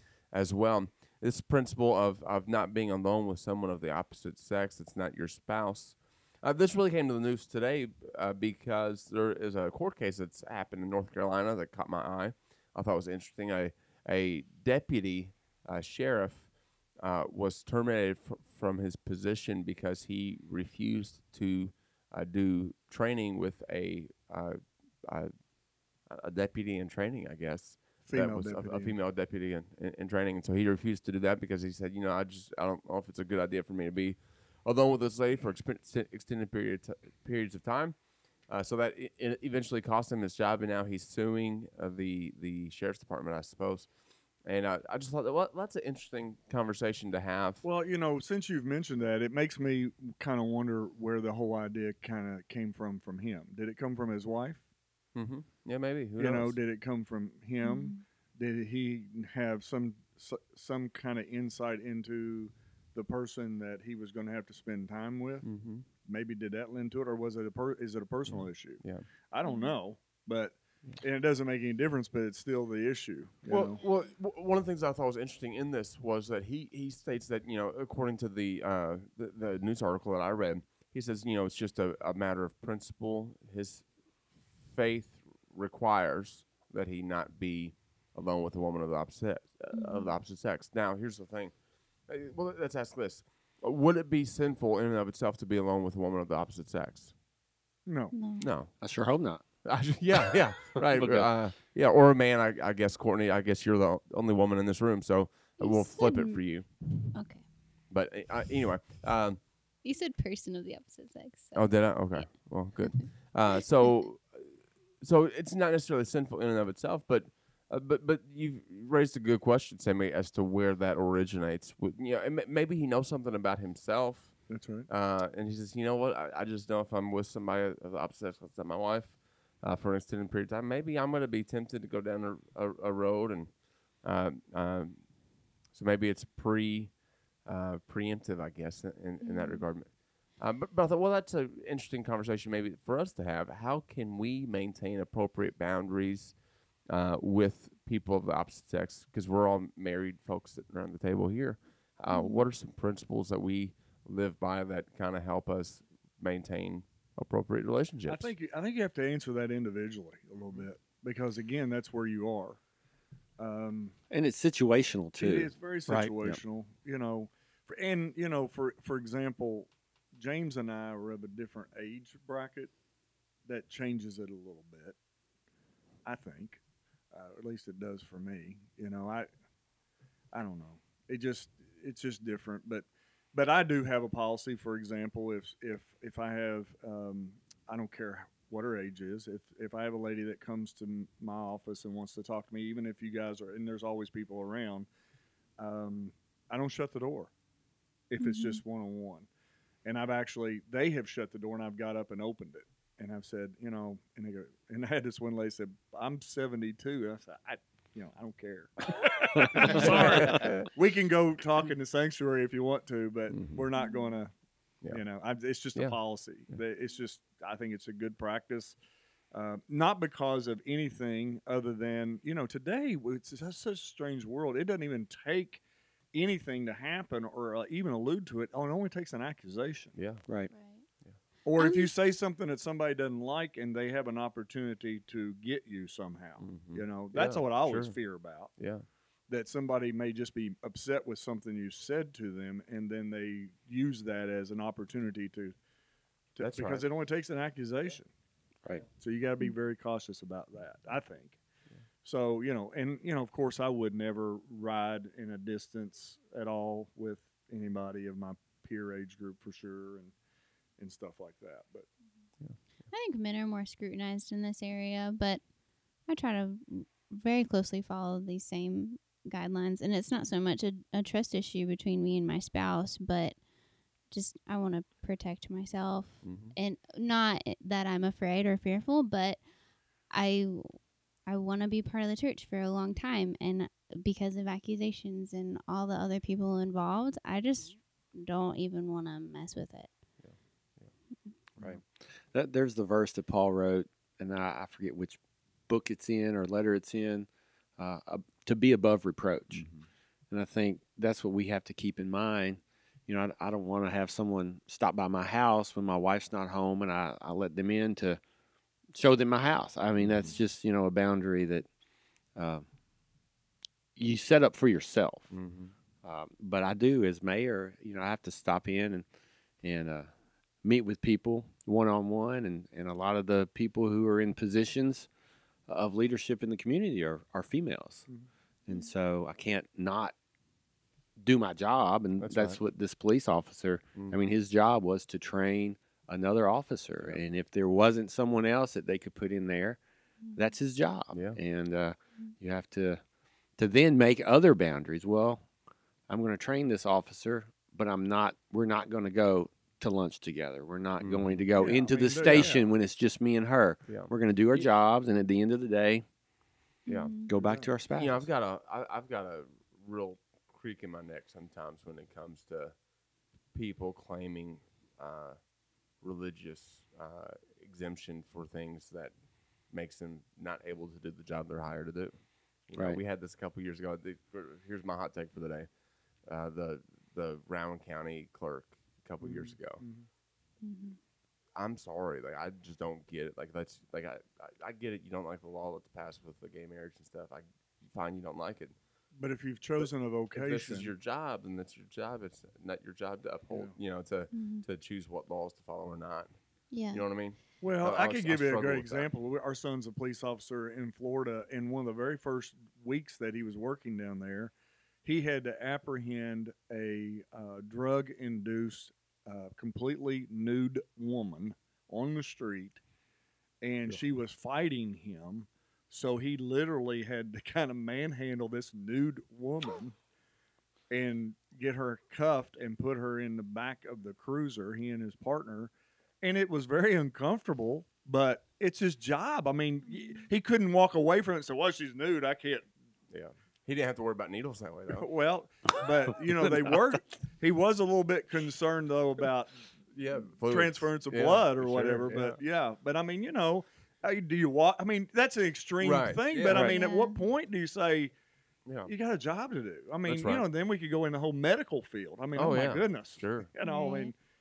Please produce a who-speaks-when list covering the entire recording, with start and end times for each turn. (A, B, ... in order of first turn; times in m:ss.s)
0:00.3-0:16.5 A
0:17.0-0:25.3 A
0:26.1-0:38.0 A
0:28.0-0:29.0 B
0:38.5-0:43.9 A
0:44.5-0:47.6 A
0:47.6-0:54.6 B
0:55.2-0:56.6 A
0:56.2-1:05.5 B
0:57.6-0:58.0 C
1:05.4-1:05.8 A
1:06.0-1:13.8 B
1:08.3-1:09.1 A
1:09.4-1:09.7 C
1:13.5-1:23.8 A
1:24.7-1:31.5 A
1:29.7-1:30.1 C
1:32.1-1:37.1 A
1:37.9-1:38.2 B
1:38.1-1:38.5 C
1:38.4-1:38.7 A
1:38.8-1:39.4 D
1:39.6-1:46.7 A
1:40.8-1:41.3 D
1:45.6-1:46.4 C
1:47.1-1:47.4 C
1:47.9-1:49.4 A
1:49.8-1:51.6 C
1:51.6-1:54.4 A
1:55.0-2:04.4 A
2:04.5-2:04.9 B
2:04.9-2:13.5 A
2:14.0-2:15.0 A
2:15.7-2:16.9 A
2:17.5-2:19.9 A
2:19.2-2:19.6 C
2:20.4-2:26.4 A
2:26.9-2:38.3 A
2:32.1-2:32.5 C
2:38.1-2:42.6 B
2:43.4-2:44.0 B
2:44.1-2:45.5 D
2:45.2-2:52.7 B
2:46.1-2:46.4 D
2:53.5-2:55.0 B
2:56.0-2:56.6 B
2:57.1-2:59.3 B
3:00.3-3:14.9 B
3:15.6-3:17.3 B
3:18.1-3:19.3 B
3:18.2-3:18.6 C
3:19.8-3:34.3 B
3:29.6-3:30.7 A
3:33.3-3:33.6 A
3:33.8-3:34.1 C
3:34.9-3:38.8 B
3:39.3-3:45.6 B
3:46.1-3:50.0 B
3:50.0-3:50.2 A
3:50.5-3:50.8 C
3:51.5-3:58.5 B
3:51.6-3:51.9 C
3:56.4-3:58.0 A
3:58.6-3:58.8 A
3:59.3-4:05.6 B
4:06.4-4:08.1 B
4:06.4-4:06.9 A
4:08.9-4:11.4 B
4:12.0-4:20.1 B
4:20.8-4:21.9 B
4:22.9-4:25.4 C
4:26.1-4:33.4 C
4:34.1-4:39.4 C
4:36.2-4:36.6 A
4:40.1-4:40.8 C
4:41.3-4:49.9 C
4:50.2-4:50.9 A
4:51.6-4:59.7 D
4:59.6-4:59.9 A
5:00.3-5:08.2 D
5:08.9-5:11.7 D
5:10.0-5:10.3 A
5:12.4-5:12.6 D
5:14.0-5:15.3 D
5:15.3-5:15.7 A
5:16.0-5:19.0 D
5:19.6-5:20.1 D
5:20.6-5:25.1 D
5:25.7-5:28.1 D
5:28.7-5:30.1 D
5:31.2-5:39.8 D
5:32.2-5:32.6 A
5:34.0-5:34.2 A
5:40.4-5:43.0 D
5:41.1-5:41.4 A
5:43.6-5:45.4 D
5:46.1-5:56.0 D
5:51.0-5:51.5 A
5:51.6-5:52.6 B
5:52.2-5:52.5 A
5:53.9-5:54.7 A
5:56.9-5:57.3 C
5:56.9-5:57.1 A
5:57.3-5:58.3 D
5:57.3-5:57.7 B
5:58.0-6:02.7 A
6:03.5-6:05.4 A
6:06.0-6:09.1 A
6:09.7-6:12.2 A
6:12.7-6:15.7 A
6:12.8-6:13.0 D
6:16.3-6:19.8 A
6:19.2-6:20.1 B
6:20.6-6:21.0 C
6:21.6-6:28.8 A
6:29.2-6:30.9 B
6:29.8-6:36.3 A
6:34.3-6:34.6 C
6:36.7-6:37.0 C
6:36.9-6:39.1 A
6:37.6-6:44.5 B
6:45.0-6:52.8 B
6:53.6-7:00.0 B
7:00.9-7:12.7 B
7:09.9-7:10.2 C
7:13.1-7:15.1 A
7:14.9-7:19.5 B
7:19.9-7:22.4 A
7:20.4-7:28.1 B
7:25.8-7:26.7 A
7:26.5-7:26.8 D
7:26.5-7:27.2 C
7:28.9-7:34.1 B
7:30.1-7:30.4 A
7:32.4-7:33.5 A
7:33.6-7:34.1 C